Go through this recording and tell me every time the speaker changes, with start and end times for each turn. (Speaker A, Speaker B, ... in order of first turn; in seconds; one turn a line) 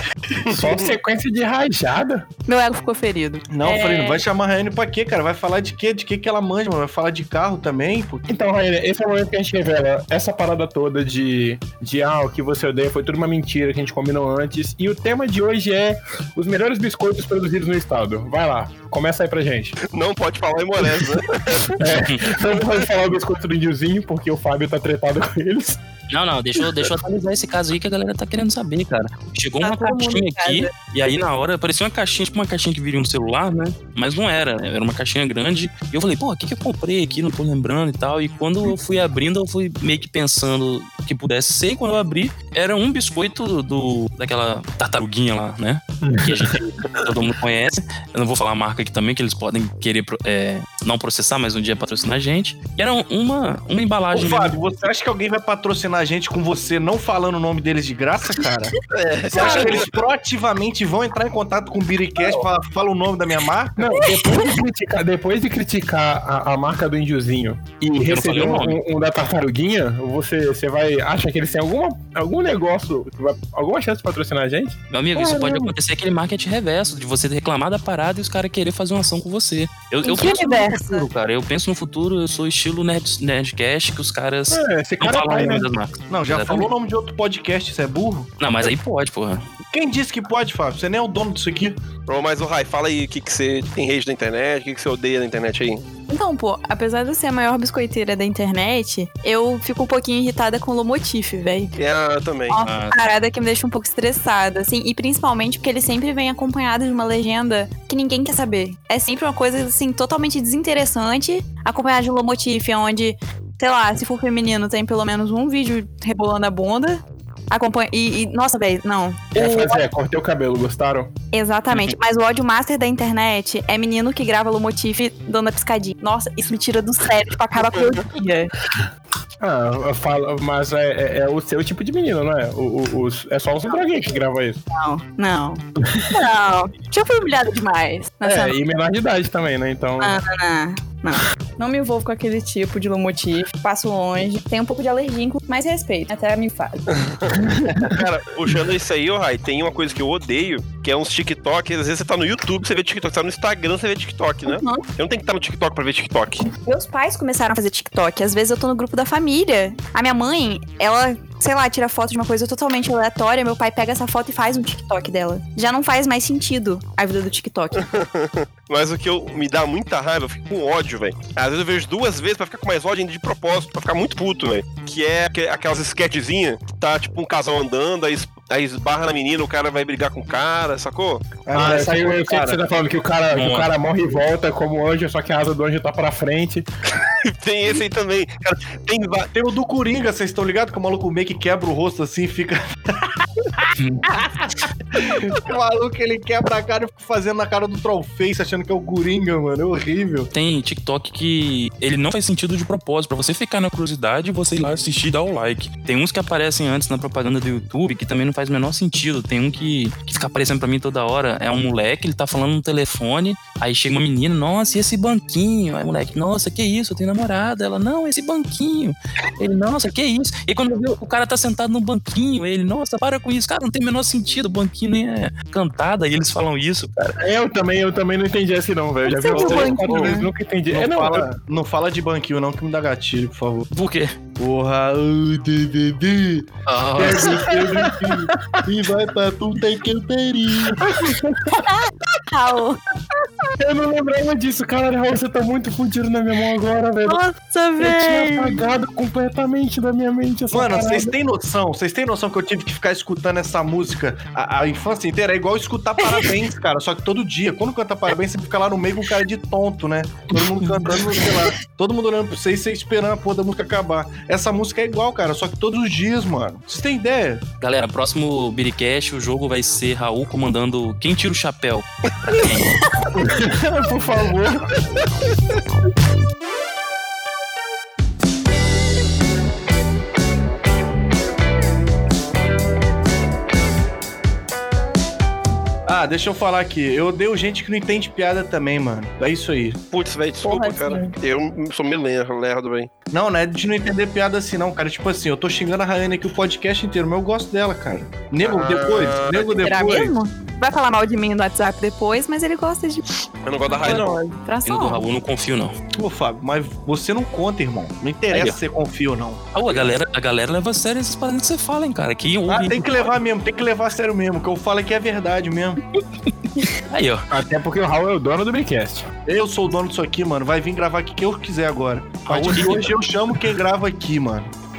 Speaker A: 0.5-0.9
Speaker B: 0.5-2.3
Speaker C: 2.5-4.2
Speaker D: 3.5-8.2
Speaker B: 8.3-19.8
Speaker A: 19.9-21.8
Speaker B: 21.7-25.8
Speaker E: 21.9-22.2
Speaker E: 26.1-54.6
Speaker C: 29.6-30.7
Speaker B: 46.0-47.1
Speaker D: 54.1-58.8
Speaker A: 58.9-59.9
Speaker D: 59.3-63.8
Speaker B: 59.4-59.9
Speaker B: 63.8-75.7
Speaker C: 63.9-64.5
Speaker E: 68.1-68.8
Speaker E: 74.9-86.7
Speaker C: 80.0-81.1
Speaker B: 84.5-85.8
Speaker D: 85.3-88.3
Speaker E: 88.4-89.4
Speaker D: 89.7-91.8
Speaker A: 92.1-95.8
Speaker C: 96.1-101.7
Speaker A: 101.8-102.6
Speaker C: 102.5-119.8
Speaker E: 102.6-102.9
Speaker B: 119.3-121.1
Speaker C: 121.3-128.5
Speaker B: 129.4-134.6
Speaker C: 133.7-138.6
Speaker B: 135.8-136.1
Speaker B: 138.2-140.2
Speaker C: 140.0-147.0
Speaker A: 147.1-156.5
Speaker B: 147.5-148.0
Speaker C: 154.5-154.8
Speaker C: 156.7-168.0
Speaker A: 167.8-181.4
Speaker D: 181.4-182.6
Speaker B: 181.5-186.7
Speaker E: 183.3-183.7
Speaker A: 187.2-189.3
Speaker D: 189.3-200.3
Speaker E: 193.8-194.2
Speaker E: 200.3-227.2
Speaker B: 227.2-231.3
Speaker C: 229.1-230.3
Speaker E: 229.3-229.8
Speaker D: 230.7-233.7
Speaker E: 233.7-234.2
Speaker D: 234.4-240.8
Speaker E: 236.7-237.5
Speaker B: 237.0-238.7
Speaker B: 240.8-241.6
Speaker C: 241.6-242.8
Speaker B: 243.6-247.2
Speaker C: 247.1-248.6
Speaker B: 247.8-251.2
Speaker D: 250.5-267.4
Speaker E: 267.6-272.8
Speaker B: 273.1-274.6
Speaker D: 285.9-289.8
Speaker A: 289.9-292.9
Speaker C: 290.4-291.1
Speaker D: 293.1-300.1
Speaker A: 298.4-299.7
Speaker C: 299.5-303.1
Speaker A: 303.4-304.2
Speaker C: 303.6-305.0
Speaker E: 304.6-305.7
Speaker D: 306.0-309.9
Speaker E: 308.3-308.6
Speaker E: 309.5-313.1
Speaker D: 312.5-315.8
Speaker E: 316.8-317.2
Speaker B: 317.3-319.1
Speaker D: 319.3-324.5
Speaker E: 322.3-323.0